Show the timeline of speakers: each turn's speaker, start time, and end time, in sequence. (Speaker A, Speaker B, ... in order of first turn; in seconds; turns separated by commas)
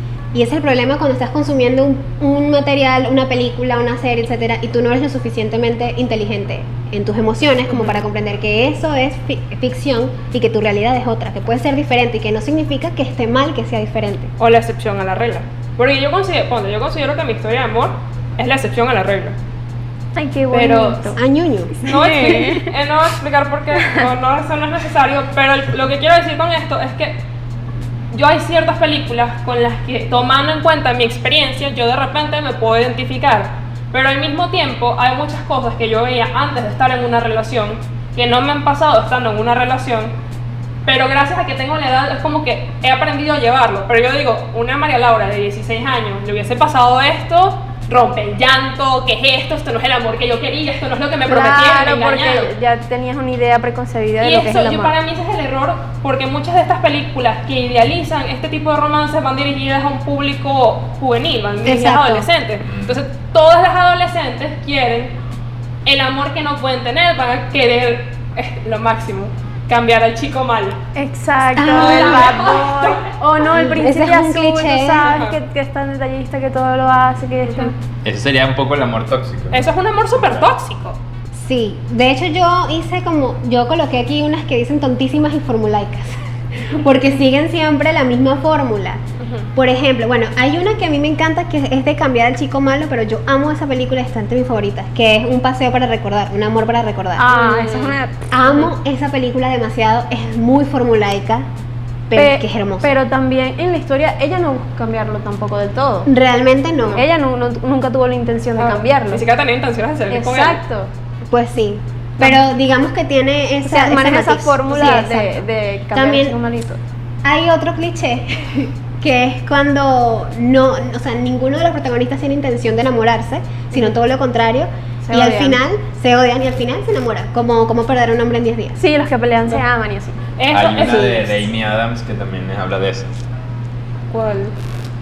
Speaker A: 0.3-14.3, Speaker B: 7.7-8.0, Speaker B: 14.4-19.4, Speaker C: 20.2-21.2, Speaker B: 20.5-21.1, Speaker A: 21.2-21.8, Speaker C: 21.8-22.7, Speaker B: 21.8-27.2, Speaker B: 28.1-40.1, Speaker B: 40.9-52.5, Speaker C: 51.3-54.9, Speaker B: 54.2-65.2, Speaker A: 61.6-62.3, Speaker D: 62.6-63.0, Speaker B: 65.8-70.8, Speaker C: 71.0-77.7, Speaker A: 71.6-72.5, Speaker B: 71.7-73.1, Speaker A: 73.5-75.2, Speaker B: 75.0-75.4, Speaker B: 77.5-77.7, Speaker D: 78.0-80.5, Speaker B: 79.5-81.0, Speaker A: 81.3-89.0, Speaker B: 89.2-89.5, Speaker A: 89.5-97.5, Speaker C: 97.2-98.1, Speaker B: 97.3-97.9, Speaker A: 98.3-101.5, Speaker A: 102.1-102.9, Speaker C: 102.2-106.1, Speaker A: 106.1-107.1, Speaker C: 106.9-109.2, Speaker B: 108.6-110.6, Speaker C: 110.1-110.9, Speaker A: 111.3-116.4, Speaker C: 113.6-116.8, Speaker A: 117.2-128.8, Speaker C: 125.0-125.6, Speaker C: 128.8-130.2, Speaker B: 130.4-131.4, Speaker D: 130.5-133.1, Speaker B: 134.1-134.5